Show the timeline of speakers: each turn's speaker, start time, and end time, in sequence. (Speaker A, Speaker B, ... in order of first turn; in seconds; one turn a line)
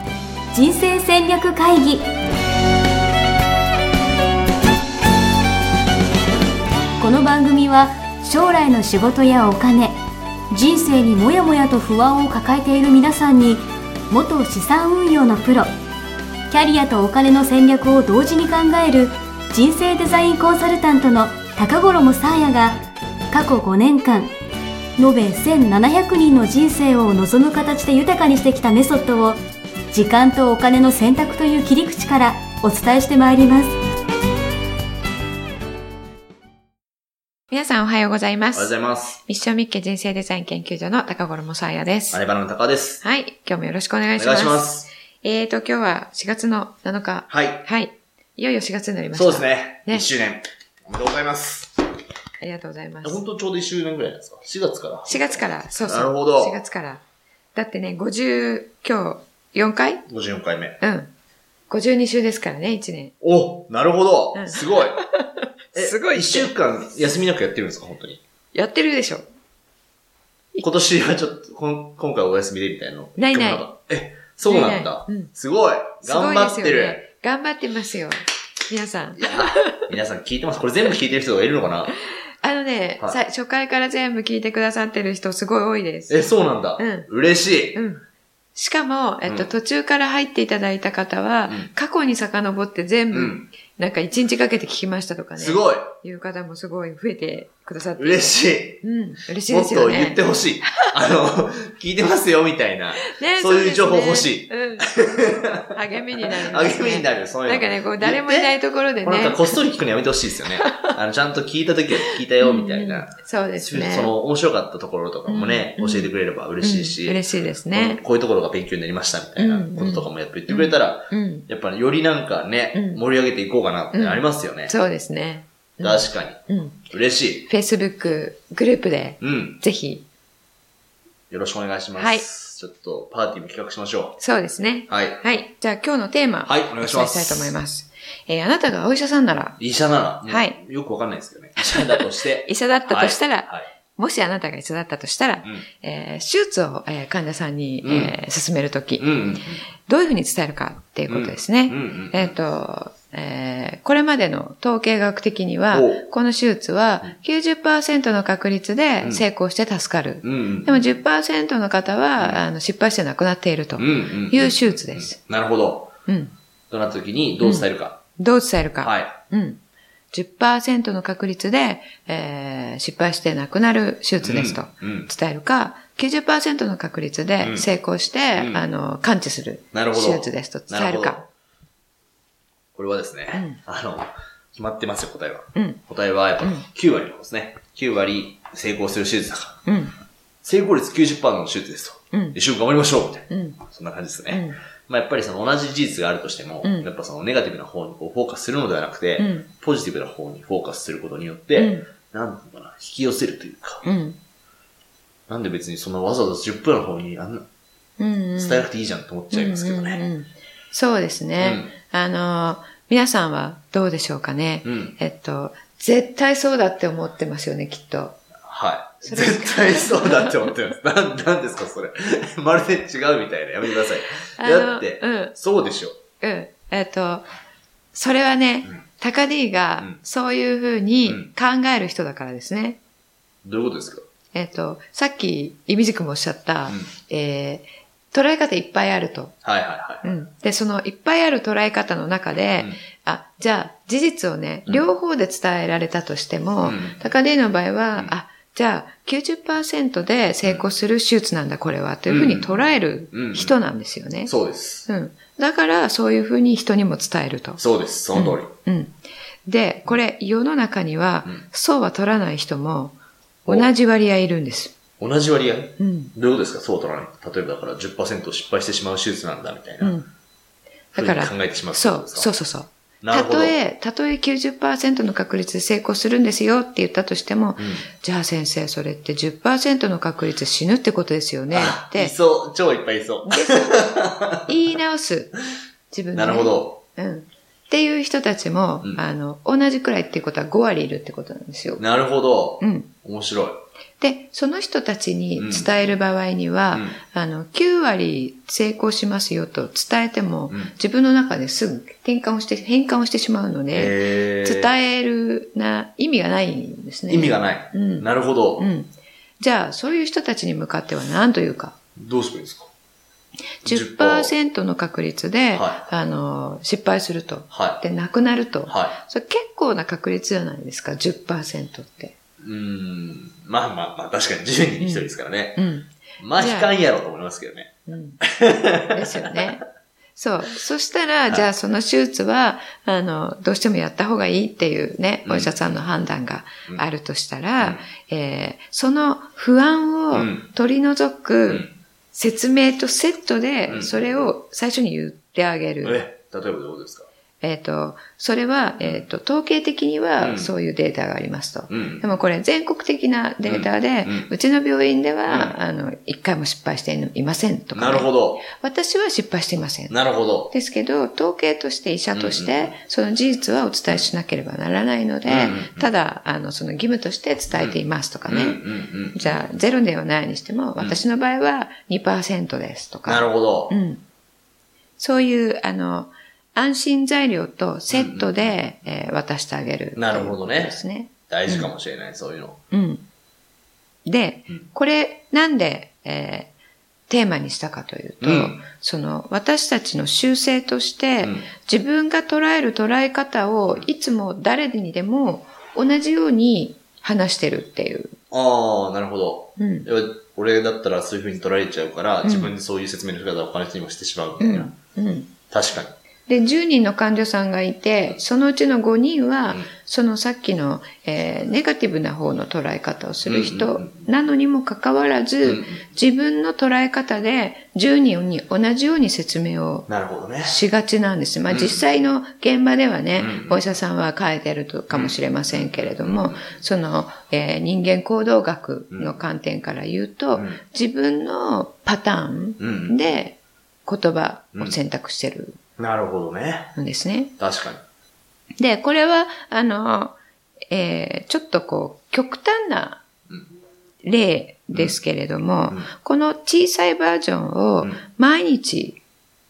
Speaker A: 0.5-2.1
Speaker A: 7.0-10.0
Speaker A: 10.5-15.7
Speaker A: 16.5-22.8
Speaker A: 23.3-24.3
Speaker A: 25.0-29.4
Speaker A: 29.9-33.7
Speaker B: 37.5-42.2
Speaker C: 38.5-39.2
Speaker C: 42.1-43.0
Speaker B: 43.0-50.1
Speaker C: 44.2-44.9
Speaker C: 47.3-47.6
Speaker C: 49.1-51.8
Speaker B: 52.4-53.2
Speaker C: 53.0-56.6
Speaker B: 55.1-57.0
Speaker B: 57.5-60.1
Speaker C: 60.1-60.8
Speaker B: 60.8-61.1
Speaker B: 61.7-63.1
Speaker C: 63.2-65.0
Speaker B: 64.3-66.5
Speaker C: 65.8-68.2
Speaker B: 68.5-69.3
Speaker C: 70.6-77.0
Speaker B: 73.2-73.7
Speaker B: 74.5-75.3
Speaker B: 76.0-79.9
Speaker C: 79.2-82.0
Speaker B: 82.4-86.2
Speaker C: 86.1-87.8
Speaker B: 86.8-87.1
Speaker B: 87.7-88.0
Speaker B: 88.5-100.2
Speaker C: 89.2-89.5
Speaker C: 93.1-93.5
Speaker C: 95.4-95.9
Speaker C: 98.0-98.8
Speaker C: 99.5-124.7
Speaker B: 103.0-109.6
Speaker B: 110.6-111.0
Speaker B: 112.4-114.2
Speaker B: 115.3-118.0
Speaker B: 119.4-121.5
Speaker B: 122.7-123.0
Speaker B: 123.9-126.8
Speaker C: 125.8-127.5
Speaker B: 127.5-130.1
Speaker C: 129.2-129.6
Speaker C: 131.3-134.2
Speaker B: 132.0-132.2
Speaker B: 134.2-139.6
Speaker C: 134.9-135.2
Speaker C: 136.5-137.6
Speaker C: 139.6-143.7
Speaker B: 140.3-140.6
Speaker B: 141.6-149.1
Speaker C: 147.8-148.2
Speaker C: 149.0-149.6
Speaker B: 149.9-165.2
Speaker C: 151.1-152.4
Speaker C: 155.7-156.1
Speaker C: 160.2-160.9
Speaker C: 162.2-162.4
Speaker C: 163.8-165.9
Speaker B: 166.1-166.3
Speaker C: 166.7-168.0
Speaker B: 167.4-169.6
Speaker C: 168.8-169.2
Speaker B: 170.1-181.2
Speaker C: 174.2-175.1
Speaker C: 177.4-177.7
Speaker C: 178.3-178.7
Speaker C: 179.7-181.2
Speaker C: 182.8-189.6
Speaker B: 183.3-183.6
Speaker B: 185.6-185.8
Speaker B: 186.4-186.7
Speaker B: 189.7-189.9
Speaker C: 190.4-203.8
Speaker B: 192.1-192.4
Speaker B: 193.3-193.6
Speaker B: 194.3-194.6
Speaker B: 199.2-199.5
Speaker B: 201.6-201.9
Speaker B: 203.8-204.2
Speaker C: 205.3-207.5
Speaker B: 208.0-208.7
Speaker C: 208.3-210.0
Speaker B: 209.3-218.2
Speaker C: 211.4-211.7
Speaker C: 214.7-214.9
Speaker C: 218.5-226.0
Speaker B: 219.1-220.5
Speaker B: 224.4-225.4
Speaker B: 226.2-227.3
Speaker B: 227.9-232.8
Speaker C: 231.1-231.3
Speaker C: 233.4-234.1
Speaker B: 234.3-239.4
Speaker C: 239.4-240.1
Speaker B: 240.0-254.3
Speaker C: 246.6-247.0
Speaker C: 252.1-253.6
Speaker C: 254.2-254.9
Speaker B: 254.9-257.6
Speaker C: 257.6-258.5
Speaker B: 258.1-264.8
Speaker C: 265.0-270.0
Speaker B: 265.8-266.1
Speaker B: 269.8-270.1
Speaker B: 270.9-282.2
Speaker C: 271.0-272.3
Speaker C: 273.0-273.6
Speaker C: 277.6-277.9
Speaker C: 281.5-284.5
Speaker B: 283.2-285.4
Speaker B: 285.9-291.8
Speaker C: 286.1-286.8
Speaker C: 291.8-293.6
Speaker B: 292.6-292.9
Speaker B: 294.0-311.8
Speaker C: 295.4-295.9
Speaker C: 296.7-297.0
Speaker C: 300.5-300.7
Speaker C: 303.7-304.7
Speaker C: 307.1-308.7
Speaker C: 312.0-312.7
Speaker B: 313.6-322.2
Speaker C: 313.6-314.3
Speaker C: 315.5-315.8
Speaker C: 317.5-317.8
Speaker C: 318.7-319.0
Speaker C: 322.4-325.7
Speaker B: 324.8-326.7
Speaker C: 326.2-329.5
Speaker B: 327.9-328.2
Speaker B: 328.8-329.6
Speaker B: 330.1-346.1
Speaker C: 335.2-335.6
Speaker C: 337.6-337.9
Speaker C: 340.1-340.5
Speaker C: 341.5-341.8
Speaker C: 343.7-344.3
Speaker C: 345.8-347.1
Speaker B: 347.4-359.9
Speaker C: 348.8-349.1
Speaker C: 350.2-350.5
Speaker C: 351.7-352.1
Speaker C: 353.4-354.3
Speaker C: 355.3-355.6
Speaker C: 357.7-358.5
Speaker C: 359.9-360.5
Speaker B: 360.5-368.6
Speaker C: 362.1-362.8
Speaker C: 365.3-365.9
Speaker C: 367.5-369.4
Speaker B: 369.1-374.0
Speaker C: 370.8-371.0
Speaker C: 373.1-373.8
Speaker B: 375.0-381.7
Speaker C: 377.9-378.6
Speaker C: 380.0-382.6
Speaker B: 382.7-383.1
Speaker B: 384.1-386.5
Speaker B: 387.1-398.2
Speaker C: 388.2-388.6
Speaker C: 391.2-391.5
Speaker C: 398.3-404.7
Speaker B: 399.6-399.9
Speaker B: 402.2-402.6
Speaker B: 404.4-405.3
Speaker C: 405.5-406.0
Speaker B: 406.3-419.9
Speaker C: 413.3-414.1
Speaker C: 415.4-415.8
Speaker C: 419.9-420.6
Speaker B: 420.4-435.6
Speaker C: 421.5-421.8
Speaker C: 423.2-423.6
Speaker C: 424.9-426.6
Speaker C: 428.9-429.2
Speaker C: 430.4-430.6
Speaker C: 432.6-433.0
Speaker C: 435.8-436.7
Speaker B: 436.8-437.3
Speaker C: 437.4-437.8
Speaker B: 438.6-440.2
Speaker B: 440.7-443.0
Speaker B: 444.0-449.0